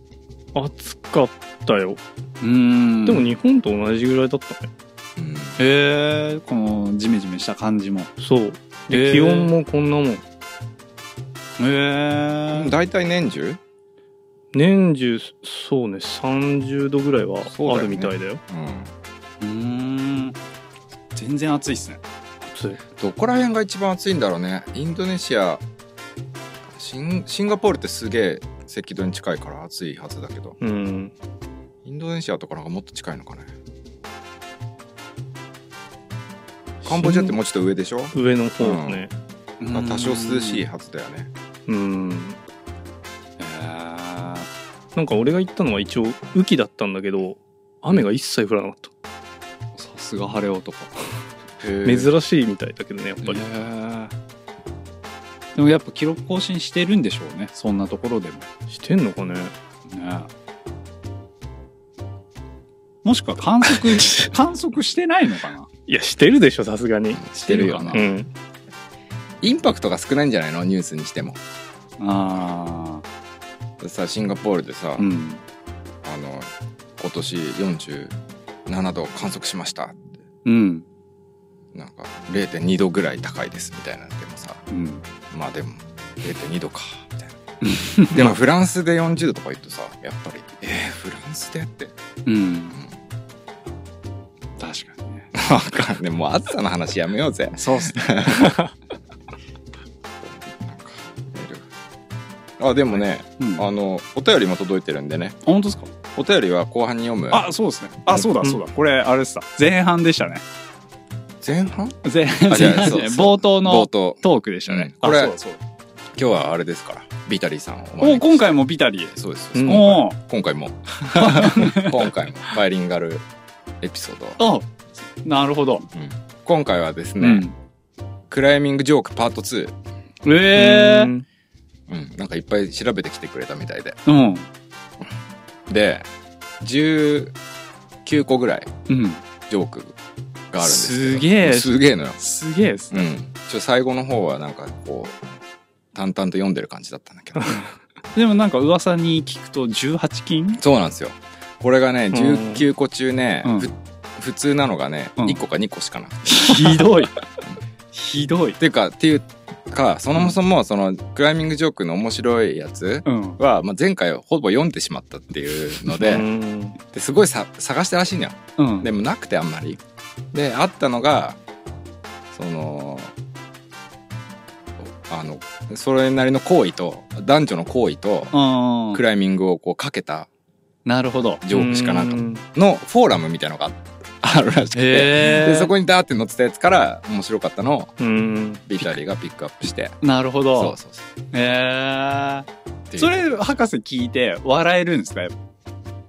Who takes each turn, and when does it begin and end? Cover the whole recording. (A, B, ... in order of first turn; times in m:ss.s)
0:00.5-0:02.0 A
0:02.4-0:03.3 B
0:03.0-0:04.7 A
0:05.2-0:05.6 C
0:05.6-0:08.1 B
0:08.2-0:10.2 A
0:08.9-0:09.5 B
0:11.6-0:12.7 B
0:12.5-0:13.6 C
0:14.5-0:18.4 A
0:17.5-0:18.9 C
0:19.4-0:20.4 B
0:21.2-0:22.0 B
0:22.4-0:22.8 A
0:23.0-0:25.6 C
0:26.8-0:30.6 C
0:30.6-0:31.1 A
0:31.8-0:33.5 C
0:36.8-0:37.4 A
0:36.8-0:39.0 C
0:38.1-0:39.1 A
0:39.6-0:40.6 B
0:39.7-0:41.3 C
0:41.7-0:42.4 A
0:43.4-0:44.5 B
0:45.0-0:48.9 A
0:49.8-0:51.2 B
0:51.6-0:52.1 C
0:51.8-0:53.4 A
0:53.2-0:54.1 B
0:55.5-0:58.5 B
0:58.7-0:59.6 A
0:59.9-1:00.3 B
1:03.0-1:05.7 B
1:05.9-1:08.3 A
1:07.1-1:08.2 C
1:07.6-1:07.9 B
1:09.4-1:11.4 C
1:12.0-1:13.0 B
1:13.8-1:15.1 C
1:15.0-1:15.4 B
1:16.0-1:18.2 C
1:18.7-1:20.2 C
1:20.4-1:20.8 B
1:21.7-1:24.6 C
1:24.7-1:25.0 B
1:25.3-1:27.4 C
1:27.6-1:28.3 B
1:28.1-1:32.0 C
1:32.3-1:32.8 B
1:34.6-1:35.3 B
1:35.3-1:38.6 C
1:37.6-1:38.2 B
1:40.2-1:41.7 C
1:42.6-1:45.4 C
1:43.4-1:43.7 B
1:45.4-1:45.9 B
1:46.1-1:47.5 C
1:47.3-1:50.4 B
1:48.1-1:48.6 A
1:51.4-1:55.4 C
1:52.0-1:55.6 B
1:56.2-1:58.5 C
1:58.0-2:00.2 B
1:59.2-2:03.3 C
1:59.6-1:59.9 A
2:01.1-2:02.1 B
2:03.8-2:04.4 C
2:04.4-2:05.9 B
2:05.9-2:07.5 C
2:07.2-2:07.5 B
2:08.3-2:09.8 C
2:10.2-2:11.1 B
2:10.5-2:11.2 A
2:11.9-2:14.0 C
2:14.1-2:14.5 B
2:15.7-2:16.1 C
2:16.6-2:17.4 C
2:18.0-2:18.7 C
2:18.9-2:19.2 B
2:19.5-2:20.0 C
2:20.5-2:22.2 C
2:20.6-2:23.1 B
2:22.9-2:25.2 C
2:25.9-2:27.7 C
2:28.2-2:30.6 B
2:30.6-2:37.0 C
2:32.1-2:32.6 A
2:33.4-2:33.7 B
2:36.3-2:37.2 B
2:37.9-2:38.6 B
2:38.6-2:46.3 C
2:43.1-2:43.4 B
2:45.9-2:46.8 A
2:46.9-2:49.8 C
2:48.6-2:48.9 B
2:50.3-2:51.4 C
2:52.3-2:53.1 C
2:54.8-2:58.3 C
2:58.3-2:59.0 B
2:58.9-3:00.3 C
3:00.9-3:01.4 B
3:01.4-3:07.9 C
3:01.5-3:02.4 A
3:04.7-3:05.7 B
3:08.0-3:08.6 A
3:08.7-3:10.0 C
3:10.0-3:10.8 B
3:10.5-3:11.0 C
3:11.3-3:15.4 B
3:12.9-3:13.5 C